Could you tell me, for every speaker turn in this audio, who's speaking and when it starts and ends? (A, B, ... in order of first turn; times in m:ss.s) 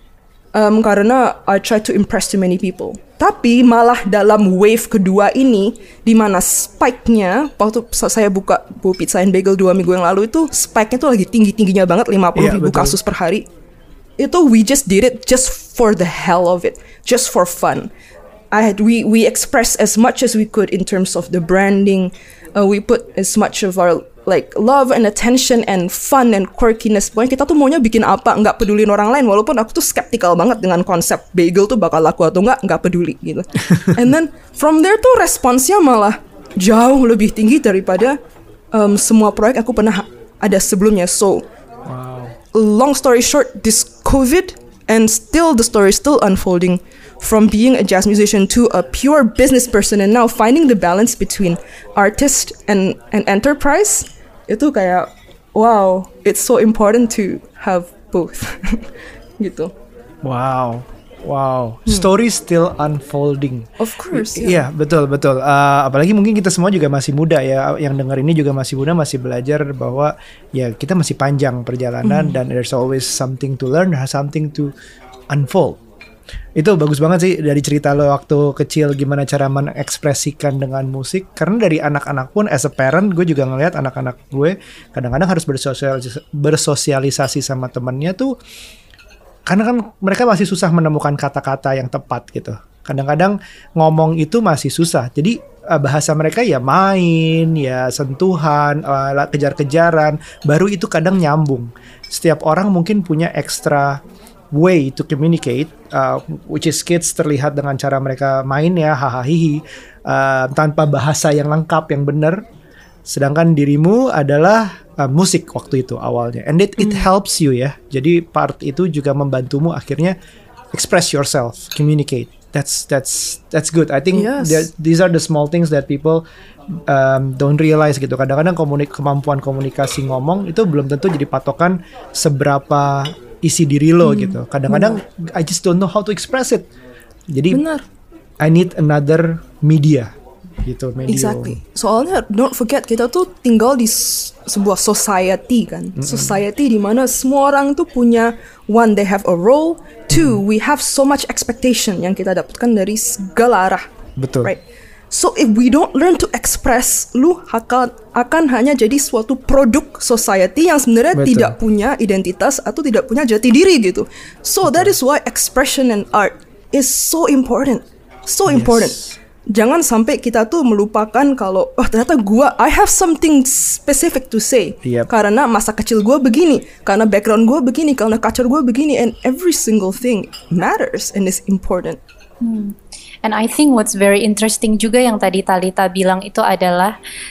0:00.6-0:13.5 A
0:12.4-0:13.0 B
0:14.2-0:17.9 A
0:18.5-0:38.2 A
0:38.7-0:41.4 A
0:41.9-0:42.4 B
0:42.5-0:58.9 A
0:59.4-0:59.7 A
1:00.2-1:14.7 B
1:03.8-1:04.6 A
1:12.0-1:12.4 A
1:15.3-1:15.8 B
1:16.6-1:28.3 B
1:29.5-1:44.0 B
1:44.5-1:52.4 B
1:53.1-2:00.2 B
1:56.8-1:57.1 A
2:00.7-2:06.2 B
2:04.1-2:04.7 A
2:06.9-2:16.7 B
2:14.0-2:15.0 A
2:17.3-2:17.6 B
2:17.5-2:17.8 A
2:18.4-2:20.1 B
2:20.6-2:21.6 B
2:21.1-2:33.8 A
2:26.0-2:26.4 B
2:30.1-2:30.4 B
2:34.2-2:34.5 B
2:34.4-3:02.0 A
2:41.1-2:41.6 B
2:44.6-2:44.9 B
2:48.5-2:49.1 B
2:54.8-2:55.1 B
3:02.4-3:07.0 C